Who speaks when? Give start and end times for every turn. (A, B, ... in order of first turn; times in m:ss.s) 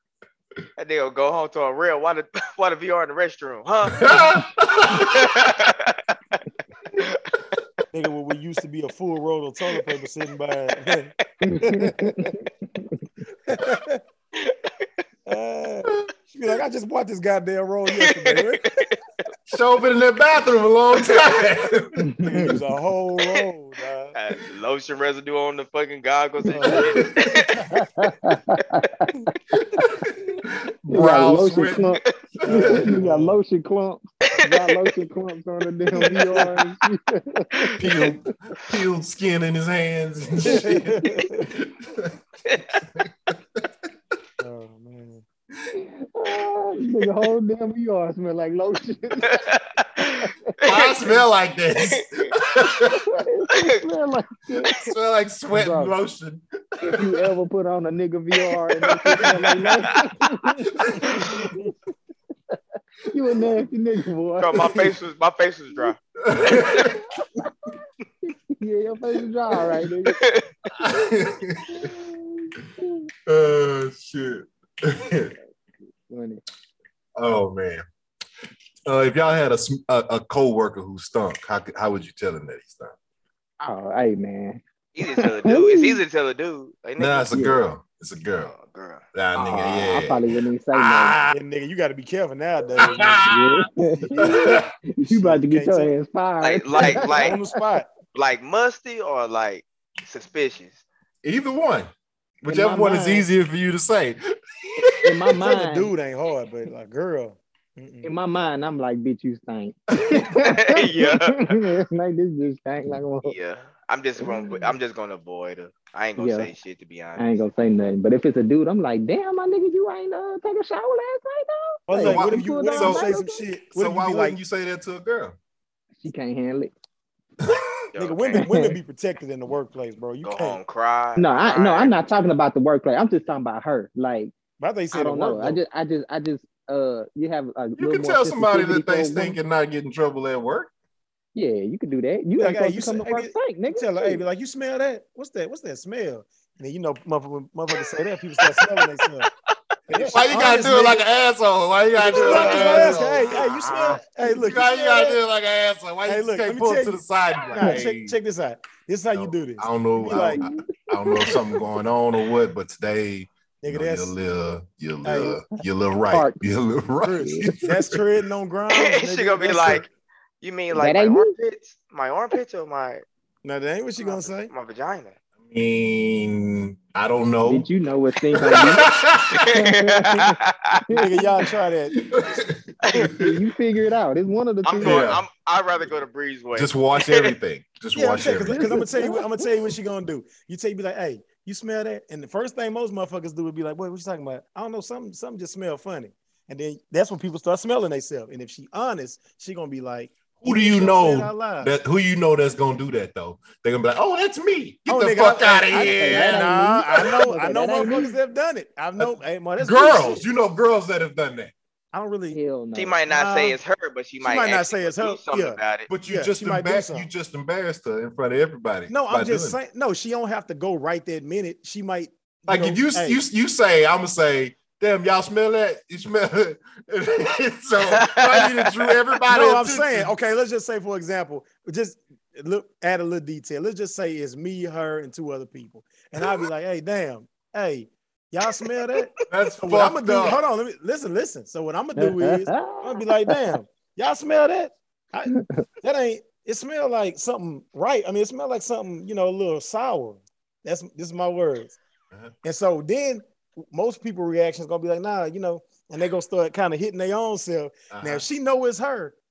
0:00.8-0:04.2 A
0:03.8-0:05.3 B
0:04.9-0:06.0 A
0:07.0-0:07.2 A
0:07.9-0:12.3 C
0:11.4-0:13.0 D
0:13.5-0:14.0 C
0:14.3-0:14.9 A
0:15.2-0:18.7 C
0:17.9-0:18.9 A
0:19.5-0:22.0 B
0:20.9-0:21.4 A
0:22.0-0:22.5 D
0:22.2-0:24.1 C
0:23.2-0:23.4 A
0:24.1-0:27.6 A
0:26.5-0:27.1 C
0:26.7-0:27.6 B
0:27.6-0:29.9 D
0:29.5-0:33.1 B
0:30.9-0:37.7 D
0:32.4-0:33.4 C
0:34.3-0:34.9 A
0:36.0-0:36.6 C
0:37.8-0:40.8 B
0:40.4-0:41.0 D
0:40.4-0:41.5 C
0:41.4-0:42.1 B
0:42.4-0:42.8 A
0:42.9-0:43.6 B
0:44.4-0:45.2 C
0:45.7-0:49.4 D
0:49.2-0:51.2 A
0:50.0-0:50.4 D
0:50.6-0:53.0 B
0:51.8-0:52.3 A
0:52.9-0:54.8 D
0:53.5-0:53.8 A
0:54.6-0:57.1 B
0:55.5-0:55.9 D
0:56.8-1:01.7 D
0:58.8-0:59.9 A
1:00.7-1:01.5 B
1:03.1-1:04.9 D
1:04.4-1:06.9 A
1:06.2-1:07.0 B
1:07.3-1:10.2 D
1:10.0-1:10.7 A
1:10.8-1:12.0 B
1:11.7-1:13.1 D
1:13.2-1:15.3 B
1:16.1-1:16.4 D
1:17.2-1:17.8 B
1:18.8-1:22.9 B
1:23.6-1:26.0 D
1:24.9-1:27.4 A
1:27.0-1:28.5 B
1:27.3-1:27.6 D
1:28.4-1:29.0 A
1:29.1-1:31.4 B
1:29.3-1:31.2 D
1:31.3-1:33.3 C
1:32.8-1:34.7 B
1:33.3-1:37.6 D
1:34.1-1:35.9 C
1:36.4-1:37.4 A
1:36.7-1:37.9 C
1:38.1-1:40.8 A
1:41.2-1:45.2 B
1:42.5-1:43.2 C
1:45.0-1:45.9 D
1:45.3-1:48.1 C
1:48.0-1:53.3 D
1:50.4-1:51.6 A
1:53.2-1:57.4 A
1:54.2-1:54.8 D
1:56.2-1:56.5 D
1:57.2-2:03.4 D
2:01.9-2:04.4 C
2:02.0-2:03.1 B
2:03.7-2:05.4 B
2:06.0-2:06.7 D
2:07.4-2:07.7 B
2:07.9-2:08.4 A
2:08.0-2:10.6 C
2:08.3-2:08.8 D
2:10.2-2:11.9 A
2:11.2-2:14.3 D
2:14.6-2:15.6 C
2:14.9-2:19.4 D
2:17.8-2:20.7 B
2:21.3-2:24.2 D
2:22.4-2:29.3 C
2:27.8-2:28.9 A
2:29.9-2:31.0 C
2:30.1-2:38.2 B
2:32.0-2:35.2 C
2:32.2-2:33.9 A
2:32.5-2:33.2 D
2:33.8-2:34.4 D
2:36.0-2:40.4 C
2:39.1-2:48.0 B
2:40.1-2:41.5 D
2:43.6-2:44.1 C
2:45.0-2:45.4 C
2:46.1-2:46.4 D
2:47.0-2:49.8 C
2:47.2-2:47.5 D
2:48.7-2:53.0 A
2:50.7-2:51.3 D
2:53.4-2:54.5 C
2:54.0-2:55.2 A
2:55.4-2:57.7 B
2:57.4-3:00.4 D
2:58.3-2:59.5 B
2:59.3-3:00.9 A
3:00.9-3:01.2 D
3:00.9-3:02.0 C
3:01.9-3:03.3 B
3:02.8-3:03.2 A
3:02.9-3:05.0 D
3:04.6-3:07.3 A
3:04.8-3:05.2 B
3:06.5-3:08.7 B
3:07.9-3:21.7 C
3:08.5-3:09.4 D
3:20.4-3:27.1 B
3:24.9-3:30.2 C
3:25.7-3:28.1 D
3:29.0-3:31.5 B
3:31.9-3:32.4 C
3:32.3-3:33.0 D
3:32.7-3:35.9 A
3:33.1-3:33.6 C
3:34.2-3:37.1 C
3:35.9-3:39.6 B
3:38.9-3:43.2 C
3:42.5-3:50.1 B
3:47.9-3:48.9 A
3:49.3-4:11.8 C
3:58.5-3:59.1 A
3:59.3-4:00.4 B
4:02.0-4:03.4 D
4:12.4-4:19.1 C
4:17.9-4:18.2 B